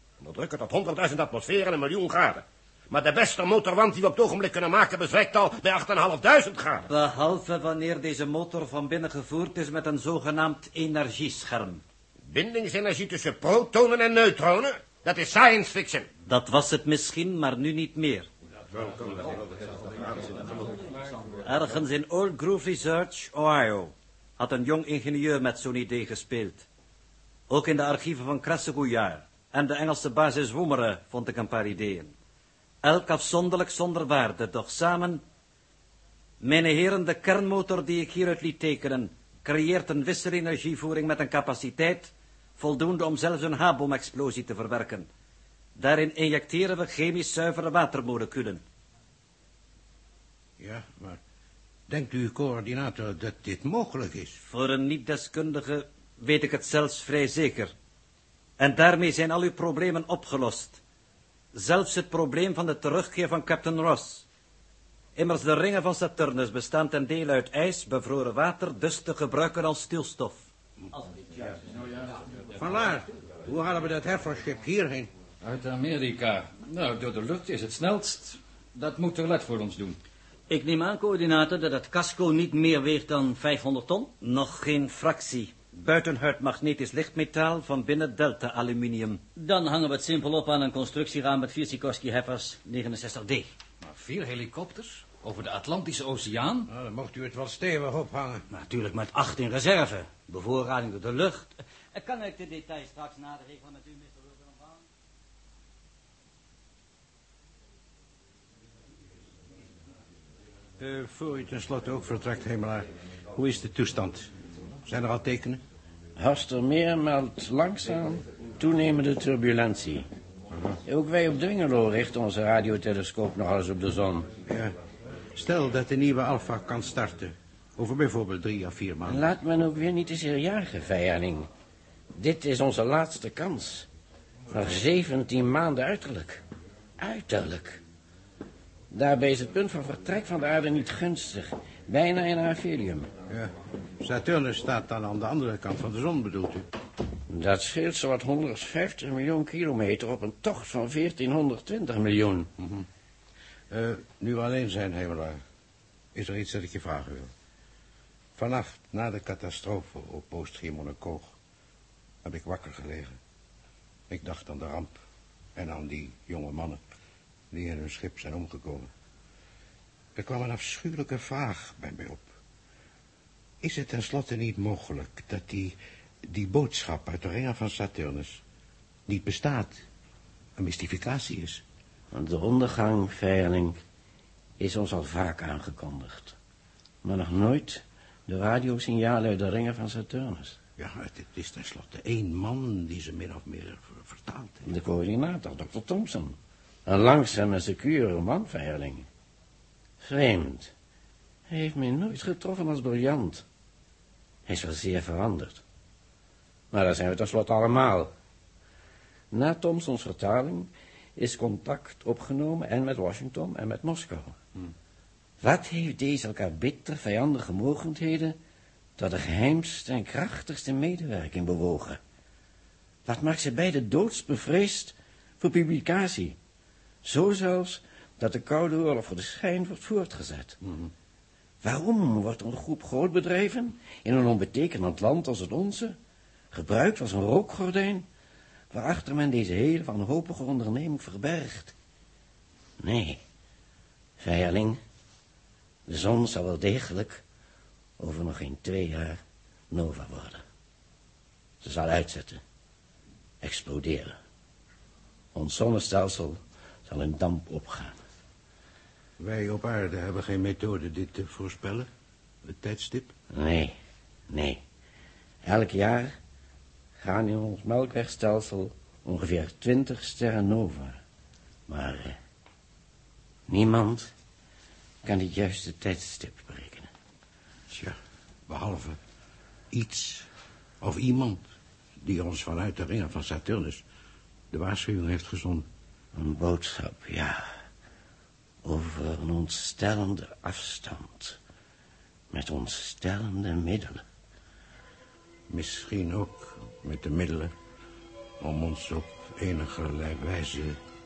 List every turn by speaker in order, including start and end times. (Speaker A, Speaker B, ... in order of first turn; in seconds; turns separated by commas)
Speaker A: 0.2-6.9, Speaker B: 6.9-11.8, Speaker A: 12.3-16.1, Speaker B: 16.3-18.3, Speaker A: 18.8-19.3, Speaker A: 20.1-20.4, Speaker B: 21.4-26.6, Speaker B: 27.5-32.1, Speaker B: 32.8-35.2, Speaker B: 36.4-45.1, Speaker B: 45.8-48.6, Speaker C: 50.6-51.2, Speaker C: 51.9-54.4, Speaker B: 54.4-57.7, Speaker B: 58.6-60.8, Speaker B: 61.5-64.2, Speaker B: 65.2-70.4, Speaker C: 72.5-75.1, Speaker D: 75.4-80.0, Speaker E: 80.5-84.1, Speaker B: 84.2-89.2, Speaker E: 89.3-93.5, Speaker D: 93.8-96.6, Speaker E: 95.4-95.8, Speaker C: 96.7-98.4, Speaker E: 98.5-104.8, Speaker C: 110.8-114.3, Speaker C: 114.9-115.6, Speaker F: 116.2-120.1, Speaker F: 120.8-124.3, Speaker C: 124.5-124.7, Speaker C: 125.3-129.3, Speaker F: 129.0-131.5, Speaker F: 132.1-133.9, Speaker F: 134.5-136.4, Speaker F: 137.0-137.8, Speaker F: 138.9-143.1, Speaker C: 143.3-146.7, Speaker F: 147.3-152.5, Speaker C: 152.6-152.8, Speaker C: 153.7-155.4, Speaker C: 156.1-157.3, Speaker C: 158.4-161.3, Speaker C: 162.2-163.2, Speaker C: 164.1-165.0, Speaker C: 165.5-166.8, Speaker C: 167.5-168.9, Speaker C: 170.2-172.3, Speaker C: 173.6-175.7, Speaker C: 176.3-178.4, Speaker C: 179.1-179.8, Speaker C: 180.6-181.6, Speaker F: 182.1-183.8, Speaker F: 184.6-186.3, Speaker F: 187.0-190.6, Speaker C: 190.8-194.8, Speaker F: 194.7-199.1, Speaker F: 200.0-200.7, Speaker F: 201.5-203.4, Speaker F: 204.5-205.6, Speaker F: 206.7-208.1, Speaker F: 209.3-214.4, Speaker F: 215.4-218.4, Speaker F: 219.0-222.0, Speaker F: 223.1-226.3, Speaker F: 227.0-230.6, Speaker C: 230.6-230.9, Speaker F: 231.6-235.9, Speaker F: 236.5-238.1, Speaker F: 238.7-241.7, Speaker F: 242.8-243.2, Speaker F: 244.2-244.8, Speaker F: 245.9-247.2, Speaker F: 248.0-249.2, Speaker F: 249.7-250.4, Speaker F: 251.6-252.4, Speaker F: 253.4-254.2, Speaker F: 255.3-258.0, Speaker C: 259.2-261.9, Speaker C: 262.4-263.1, Speaker F: 263.3-263.7, Speaker F: 264.3-264.6, Speaker F: 265.4-266.1, Speaker F: 267.0-271.0, Speaker F: 271.7-272.2, Speaker F: 273.5-274.1, Speaker F: 275.0-276.9, Speaker C: 277.7-278.0, Speaker C: 278.5-279.0, Speaker C: 279.7-280.3, Speaker C: 280.8-281.4, Speaker C: 282.0-283.8, Speaker C: 284.5-285.6, Speaker F: 286.1-287.4, Speaker F: 288.6-291.4, Speaker F: 292.3-294.0, Speaker C: 295.5-297.5, Speaker C: 298.4-300.8